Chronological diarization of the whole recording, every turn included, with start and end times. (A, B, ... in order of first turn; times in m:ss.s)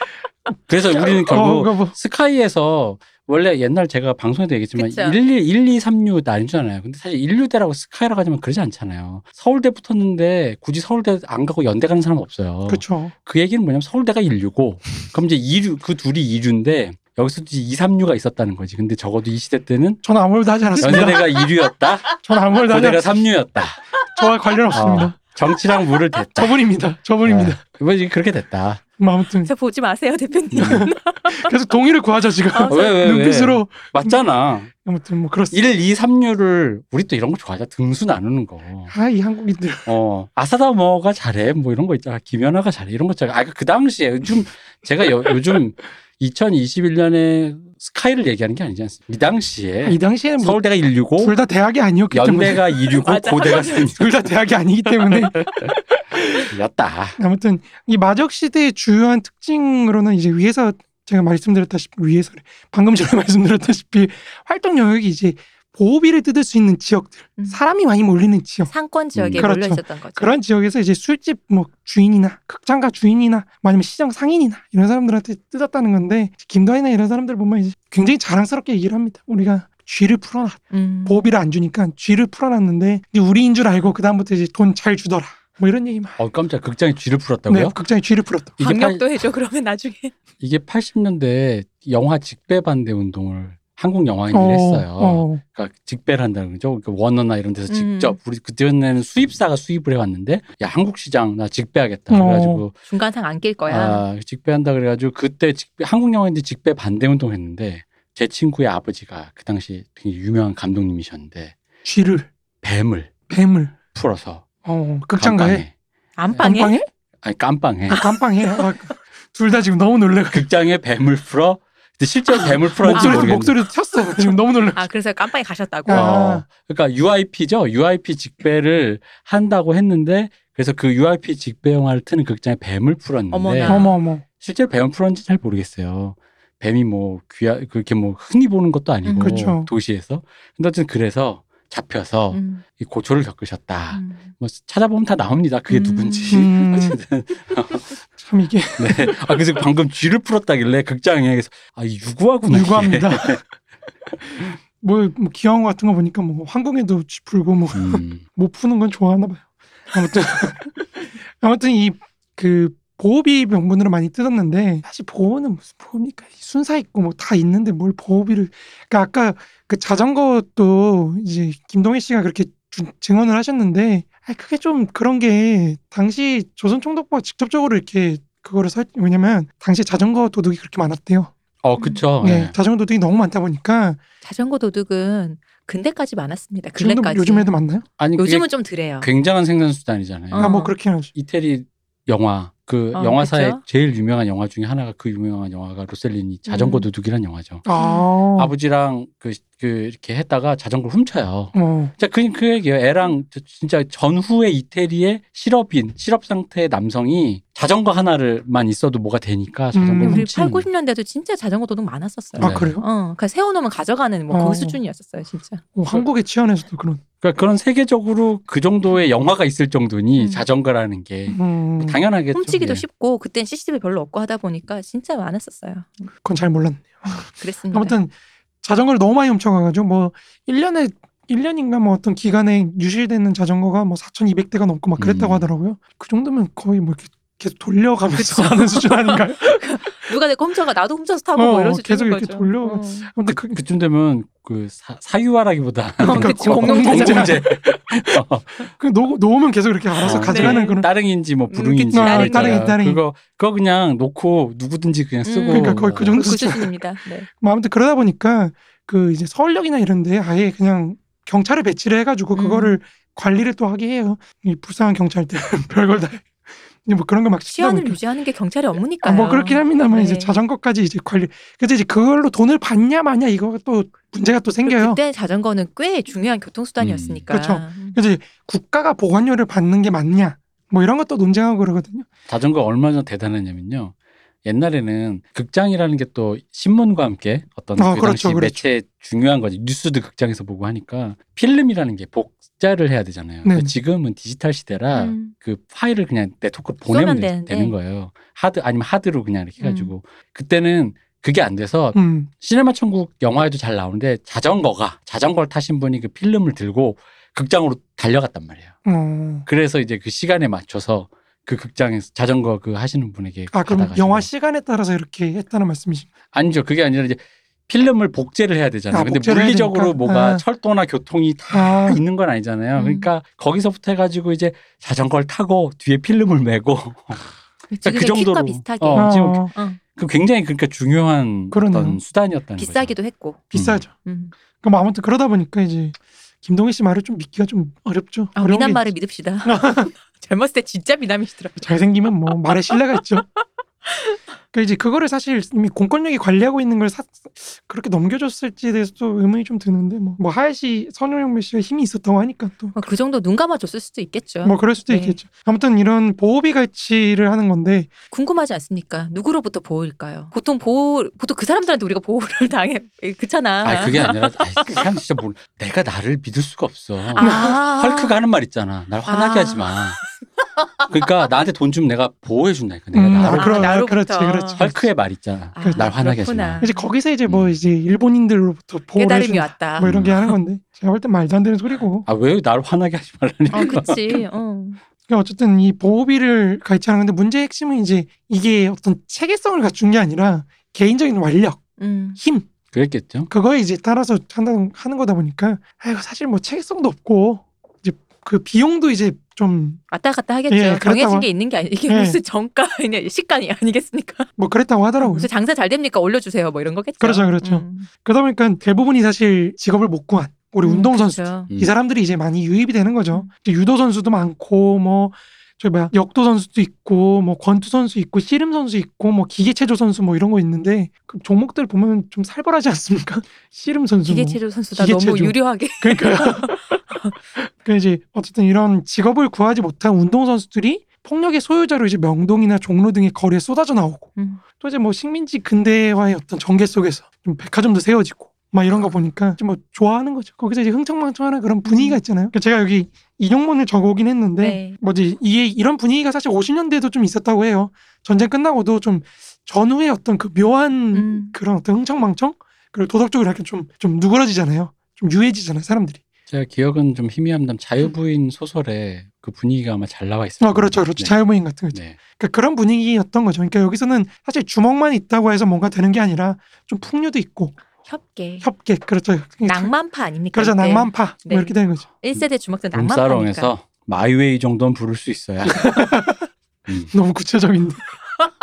0:00.7-0:20.0 A
0:01.0-0:02.0 B
0:04.8-0:05.2 C
0:12.7-0:13.1 B
0:20.0-0:21.3 B
0:20.8-0:23.9 A
0:22.2-0:23.1 B
0:24.1-0:25.2 B
0:24.7-0:26.6 A
0:26.4-0:27.6 B
0:27.2-0:28.8 A
0:29.0-0:29.5 B
0:29.4-0:31.5 C
0:30.5-0:30.9 A
0:30.6-0:34.2 B
0:32.5-0:33.0 C
0:32.7-0:34.7 A
0:34.8-0:35.6 B
0:35.5-0:38.9 A
0:38.9-0:39.9 B
0:39.9-0:51.4 A
0:49.8-0:50.6 B
0:51.2-0:53.0 B
0:52.1-0:54.1 A
0:53.0-0:53.9 C
0:53.9-0:56.5 B
0:55.1-0:55.7 A
0:56.5-0:57.2 A
0:57.2-1:08.7 B
1:08.7-1:10.3 C
1:09.2-1:09.5 A
1:09.4-1:26.2 B
1:20.7-1:21.2 C
1:26.2-1:27.8 A
1:27.5-1:28.6 B
1:28.6-1:29.1 A
1:28.6-1:30.1 C
1:30.4-1:42.8 A
1:34.3-1:35.4 B
1:37.7-1:38.2 C
1:42.1-1:42.6 B
1:42.9-1:44.0 C
1:43.7-1:51.6 A
1:51.8-1:52.3 B
1:52.6-1:53.2 A
1:53.3-1:53.8 B
1:53.9-1:54.5 A
1:54.6-1:55.6 B
1:55.2-1:55.7 A
1:56.2-1:56.8 C
1:56.4-1:56.9 B
1:57.2-1:58.0 A
1:57.9-2:00.5 B
1:57.9-1:58.6 C
2:00.3-2:03.6 A
2:02.3-2:03.3 C
2:02.4-2:04.9 B
2:04.2-2:06.2 C
2:05.9-2:06.4 B
2:05.9-2:13.9 A
2:13.3-2:14.0 C
2:13.7-2:14.2 B
2:14.4-2:27.9 A
2:19.0-2:19.4 C
2:19.2-2:19.7 B
2:22.3-2:22.6 C
2:23.9-2:24.3 C
2:25.7-2:26.5 C
2:26.3-2:27.0 B
2:28.2-2:29.3 B
2:28.8-2:33.4 A
2:32.5-2:33.4 B
2:34.8-3:01.3 B
2:37.7-2:38.2 A
3:01.6-3:02.5 A
3:01.8-3:02.0 C
3:02.2-3:04.0 B
3:04.2-3:07.5 C
3:06.8-3:07.8 B
3:08.0-3:10.6 A
3:08.2-3:09.1 C
3:10.3-3:10.7 C
3:10.4-3:11.1 B
3:11.1-3:17.7 A
3:12.9-3:13.6 C
3:16.5-3:16.9 C
3:17.7-3:18.5 B
3:17.8-3:18.0 C
3:18.4-3:30.7 A
3:21.5-3:21.9 B
3:29.7-3:30.3 B
3:30.0-3:35.6 C
3:32.4-3:32.8 A
3:32.4-3:32.8 B
3:34.3-3:34.8 B
3:35.8-3:37.0 B
3:37.2-3:42.8 A
3:40.2-3:40.4 C
3:41.3-3:42.0 B
3:42.3-3:46.1 C
3:46.2-4:00.1 B
3:47.1-3:48.0 C
3:55.0-3:55.5 A
3:58.1-4:03.1 C
4:01.4-4:03.6 B
4:03.5-4:08.7 A
4:06.0-4:07.4 C
4:06.0-4:10.9 B
4:10.0-4:16.2 A
4:10.2-4:10.8 C
4:11.5-4:12.6 C
4:11.9-4:13.0 B
4:15.2-4:17.3 C
4:15.5-4:16.7 B
4:17.3-4:26.3 B
4:22.3-4:22.8 C
4:26.8-4:28.0 B
4:27.5-4:30.4 C
4:29.0-4:35.0 B
4:34.6-4:38.0 C
4:36.8-4:37.2 A
4:37.3-4:42.1 B
4:42.3-4:43.9 A
4:44.4-5:08.8 A
4:47.8-4:48.6 B
4:53.4-4:53.8 B
4:55.0-4:55.3 C
4:56.9-4:57.8 C
4:59.6-4:59.9 C
5:01.9-5:02.3 B
5:08.8-5:09.5 B
5:09.5-5:14.3 A
5:13.5-5:16.1 B
5:16.3-5:27.2 A
5:18.9-5:20.4 B
5:21.5-5:22.0 B
5:22.8-5:23.1 C
5:27.7-5:29.8 C
5:27.8-5:33.0 A
5:29.0-5:29.5 B
5:31.5-5:32.0 B
5:32.6-5:34.3 C
5:33.5-5:33.8 A
5:33.5-5:33.9 B
5:34.6-5:38.9 B
5:38.4-5:41.7 C
5:39.4-5:39.9 B
5:41.6-5:43.2 B
5:43.9-5:44.2 C
5:44.5-5:52.8 B
5:52.8-5:55.2 C
5:54.4-5:57.9 B
5:58.1-6:04.8 C
6:03.6-6:10.0 A
6:07.2-6:08.2 C
6:07.2-6:07.6 B
6:09.1-6:10.1 C
6:10.9-6:13.8 A
6:12.9-6:14.9 B
6:13.2-6:14.6 C
6:14.6-6:16.7 A
6:15.6-6:16.9 C
6:15.6-6:15.9 B
6:16.6-6:22.1 B
6:17.3-6:17.6 A
6:19.0-6:20.3 C
6:19.8-6:20.3 A
6:22.0-6:24.2 A
6:23.5-6:24.8 C
6:25.1-6:31.6 B
6:31.8-6:32.2 C
6:32.2-6:32.5 B
6:32.7-6:33.3 A
6:33.3-6:39.8 B
6:39.9-6:44.3 C
6:40.5-6:41.3 B
6:41.9-6:42.2 B
6:44.4-6:45.3 B
6:45.0-6:47.9 C
6:47.0-7:06.8 B
6:50.6-6:51.5 C
7:04.1-7:07.2 C
7:07.4-7:36.0 B
7:14.2-7:14.4 C
7:21.6-7:22.0 C
7:24.4-7:24.8 C
7:30.9-7:31.4 C
7:36.3-7:41.2 A
7:40.4-7:47.6 B
7:41.7-7:42.0 A
7:47.8-7:48.5 C
7:48.4-7:49.7 B
7:49.5-7:53.5 C
7:50.3-7:51.9 B
7:52.7-7:55.7 A
7:55.4-7:56.3 B
7:56.7-7:56.9 A
7:56.9-7:57.9 B